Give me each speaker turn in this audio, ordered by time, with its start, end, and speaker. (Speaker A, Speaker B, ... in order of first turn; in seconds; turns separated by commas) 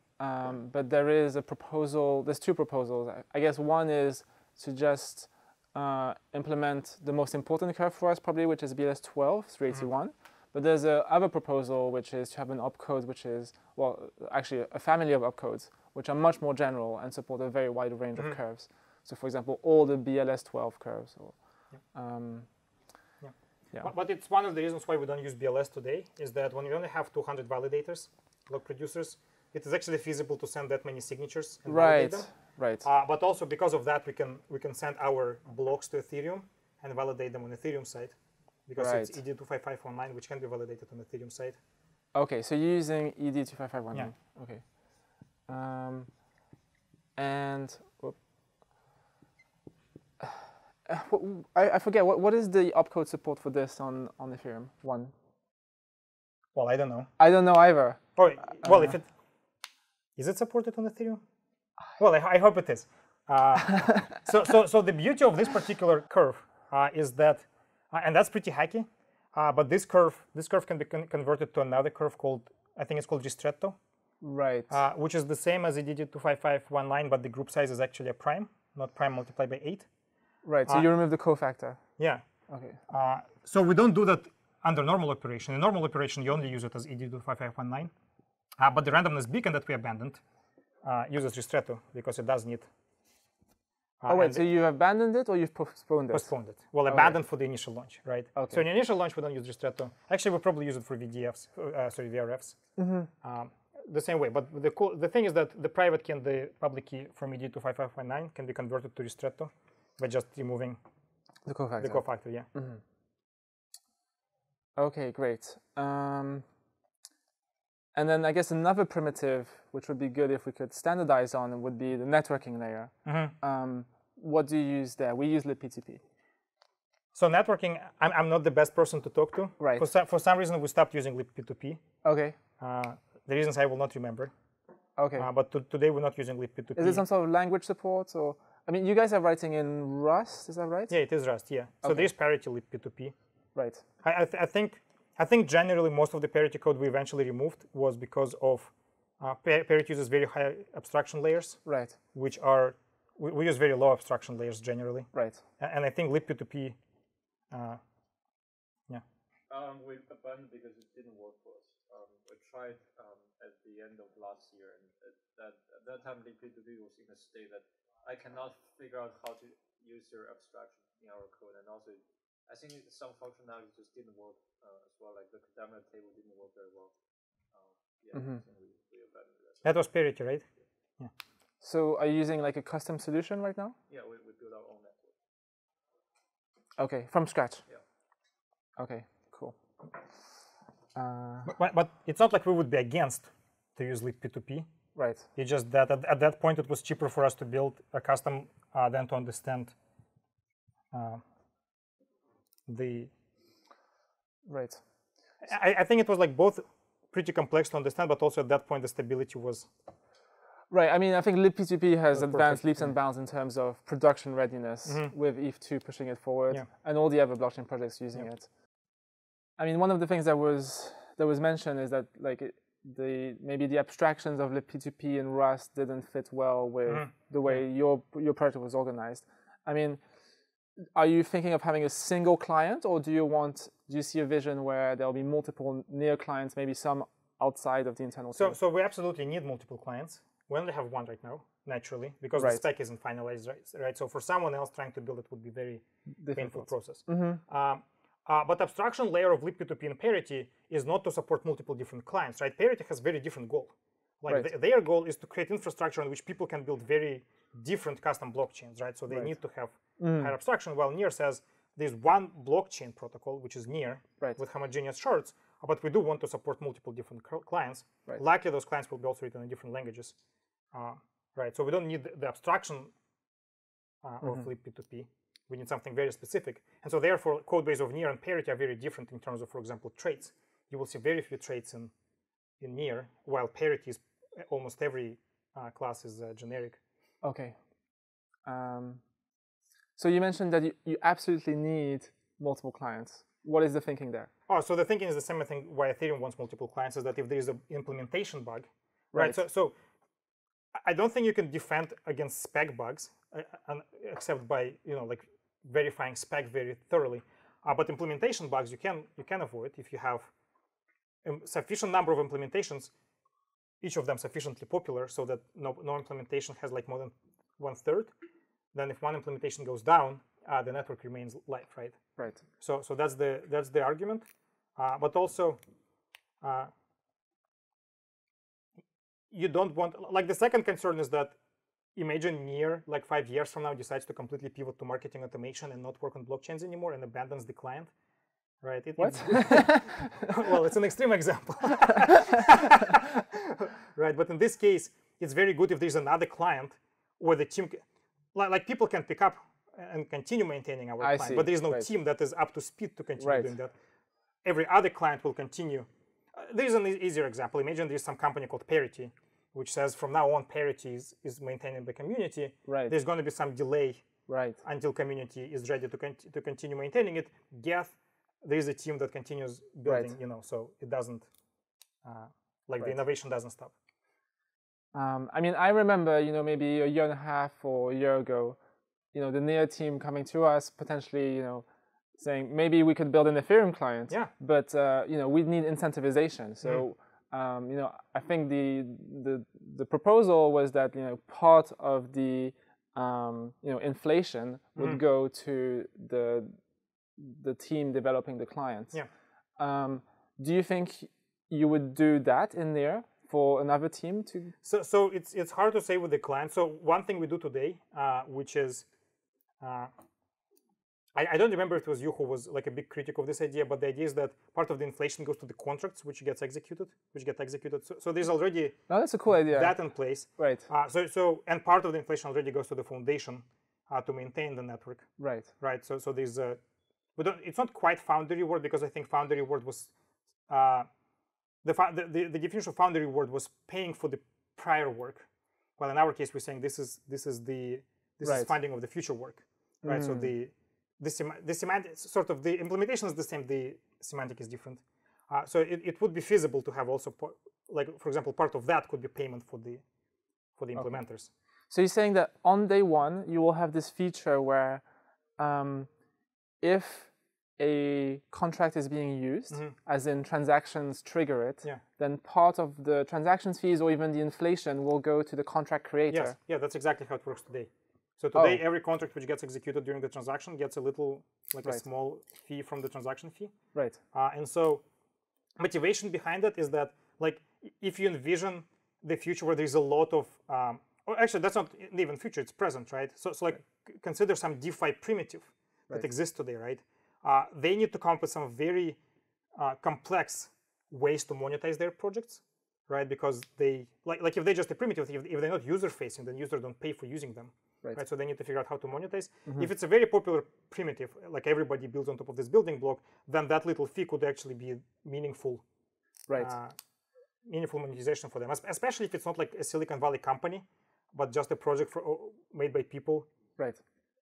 Speaker A: 0.2-22.5, Speaker B: 23.2-32.3, Speaker A: 31.7-32.8, Speaker B: 32.8-38.1, Speaker B: 38.7-41.6, Speaker A: 38.8-39.2, Speaker A: 42.1-46.2, Speaker A: 47.1-48.1, Speaker A: 50.9-55.1, Speaker B: 56.5-57.1, Speaker A: 57.2-58.9, Speaker B: 58.2-59.1, Speaker B: 60.2-61.2, Speaker B: 62.0-73.8, Speaker A: 74.2-74.8, Speaker B: 74.7-79.9, Speaker A: 80.4-81.8, Speaker B: 82.0-82.2, Speaker A: 82.5-82.8, Speaker B: 82.9-87.9, Speaker B: 88.6-90.2, Speaker B: 90.8-92.7, Speaker B: 94.0-94.4, Speaker A: 94.1-96.3, Speaker B: 96.1-102.6, Speaker A: 96.9-97.2, Speaker A: 98.3-98.6, Speaker A: 102.8-103.1, Speaker B: 103.2-110.8, Speaker A: 111.5-112.8, Speaker B: 111.8-112.5, Speaker A: 114.8-116.4, Speaker A: 117.9-126.0, Speaker B: 123.0-123.3, Speaker B: 127.1-131.8, Speaker A: 129.6-129.9, Speaker A: 132.0-132.3, Speaker B: 132.6-134.3, Speaker A: 135.0-135.3, Speaker B: 135.2-137.0, Speaker A: 136.8-140.9, Speaker B: 140.9-143.1, Speaker A: 141.8-142.1, Speaker A: 143.5-143.8, Speaker B: 144.0-151.6, Speaker A: 151.6-151.9, Speaker B: 152.1-156.8, Speaker A: 155.1-155.4, Speaker B: 157.5-157.8, Speaker C: 159.5-176.9, Speaker C: 177.5-179.8, Speaker A: 178.1-178.4, Speaker B: 179.6-180.4, Speaker A: 181.6-183.7, Speaker C: 183.9-185.2, Speaker A: 186.8-187.6, Speaker A: 188.8-189.5, Speaker A: 190.9-191.5, Speaker B: 191.4-194.7, Speaker A: 194.9-195.2, Speaker B: 195.3-199.7, Speaker B: 200.9-201.2, Speaker B: 202.7-203.1, Speaker A: 204.5-204.8, Speaker B: 205.4-209.7, Speaker A: 210.7-218.5, Speaker B: 212.1-212.9, Speaker B: 214.8-215.1, Speaker A: 219.6-230.0, Speaker B: 226.9-227.6, Speaker A: 230.9-238.6, Speaker B: 238.3-270.1, Speaker A: 242.4-242.6, Speaker A: 246.2-247.4, Speaker A: 260.0-260.3, Speaker B: 270.7-272.9, Speaker B: 274.0-281.9, Speaker B: 282.6-286.8, Speaker A: 287.2-287.6, Speaker A: 288.4-289.0, Speaker A: 290.0-294.3, Speaker B: 294.5-299.7, Speaker A: 299.1-299.4, Speaker B: 300.8-310.3, Speaker B: 311.2-312.9, Speaker B: 313.8-318.1, Speaker B: 318.7-322.0, Speaker A: 322.2-322.4, Speaker B: 322.6-325.6, Speaker B: 326.4-326.7, Speaker B: 329.3-331.4, Speaker B: 331.9-337.9, Speaker B: 338.6-353.7, Speaker A: 339.0-340.2, Speaker A: 351.0-351.9, Speaker A: 353.2-353.5, Speaker B: 354.4-364.1, Speaker A: 362.7-362.9, Speaker A: 364.3-364.6, Speaker B: 364.6-371.3, Speaker A: 369.9-370.1, Speaker B: 372.0-373.7, Speaker A: 374.9-378.6, Speaker A: 379.1-381.6, Speaker A: 382.2-396.5, Speaker B: 394.8-395.0, Speaker A: 397.2-399.0, Speaker A: 399.6-404.5, Speaker B: 404.6-408.9, Speaker B: 409.6-409.9, Speaker B: 411.1-418.8, Speaker A: 418.9-419.7, Speaker B: 419.4-425.1, Speaker A: 420.4-420.6, Speaker A: 425.2-425.5, Speaker B: 425.6-426.6, Speaker B: 427.2-429.9, Speaker B: 430.5-430.9, Speaker B: 431.6-435.3, Speaker B: 435.8-449.8, Speaker A: 438.2-438.5, Speaker A: 439.8-440.3, Speaker B: 450.6-451.3, Speaker A: 451.7-454.8, Speaker A: 455.4-455.9, Speaker A: 456.6-466.4, Speaker B: 466.1-473.5, Speaker A: 468.3-468.6, Speaker B: 474.1-474.8, Speaker B: 475.6-489.0, Speaker B: 489.6-505.6, Speaker B: 506.4-506.7, Speaker B: 507.4-513.3